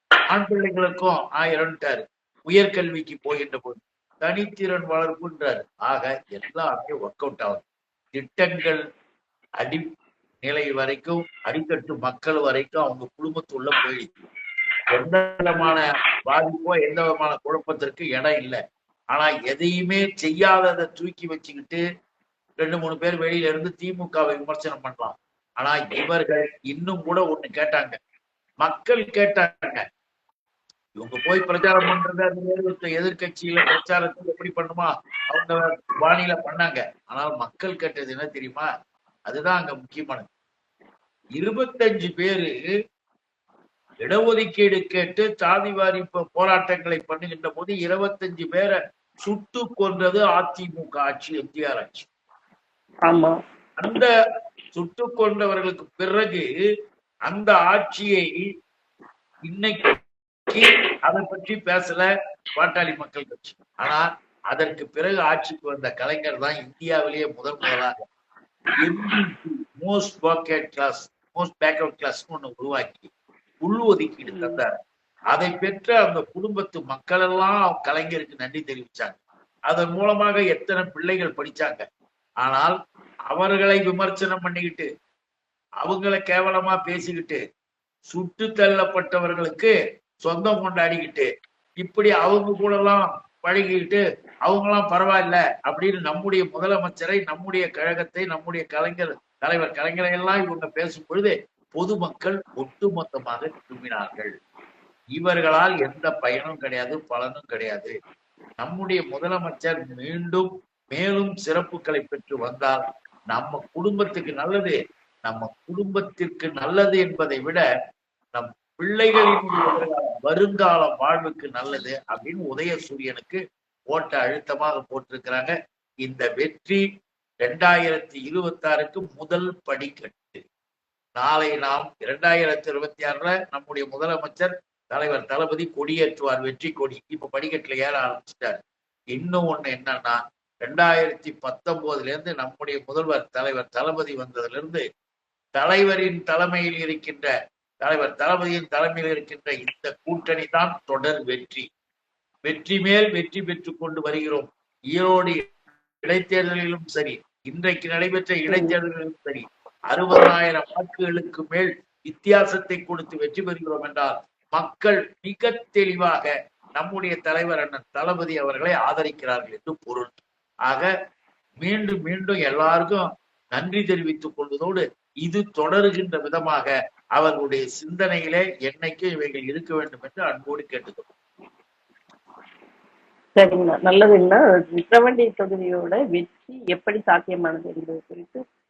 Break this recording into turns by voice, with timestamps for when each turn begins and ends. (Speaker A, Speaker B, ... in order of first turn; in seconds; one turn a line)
Speaker A: 0.3-7.6
Speaker A: 8.2-8.8
Speaker A: 9.6-9.9
Speaker A: 10.4-14.1
Speaker A: 14.9-18.6
Speaker A: 19.1-21.8
Speaker A: 22.6-28.0
Speaker A: 28.6-29.8
Speaker A: 31.0-38.7
Speaker A: 39.3-40.3
Speaker A: 41.4-42.7
Speaker A: 44.0-52.1
Speaker B: 53.1-53.4
Speaker A: 53.8-54.1
Speaker A: 54.8-56.5
Speaker A: 57.3-58.5
Speaker A: 59.5-59.9
Speaker A: 60.5-62.0
Speaker A: 62.6-67.9
Speaker A: 68.8-73.1
Speaker A: 73.6-74.7
Speaker B: 74.2-74.6
Speaker A: 75.3-81.8
Speaker A: 82.4-82.7
Speaker A: 83.3-84.9
Speaker A: 85.8-87.4
Speaker A: 88.1-89.7
Speaker A: 90.2-91.3
Speaker A: 91.8-104.3
Speaker A: 105.2-107.9
Speaker A: 108.6-117.6
Speaker A: 118.3-123.4
Speaker A: 123.9-126.8
Speaker A: 127.4-130.4
Speaker A: 131.2-138.6
Speaker A: 139.1-144.8
Speaker A: 145.6-147.3
Speaker A: 147.8-151.7
Speaker A: 152.4-155.4
Speaker A: 156.0-170.9
Speaker B: 158.5-158.8
Speaker A: 171.6-181.1
Speaker B: 183.4-188.4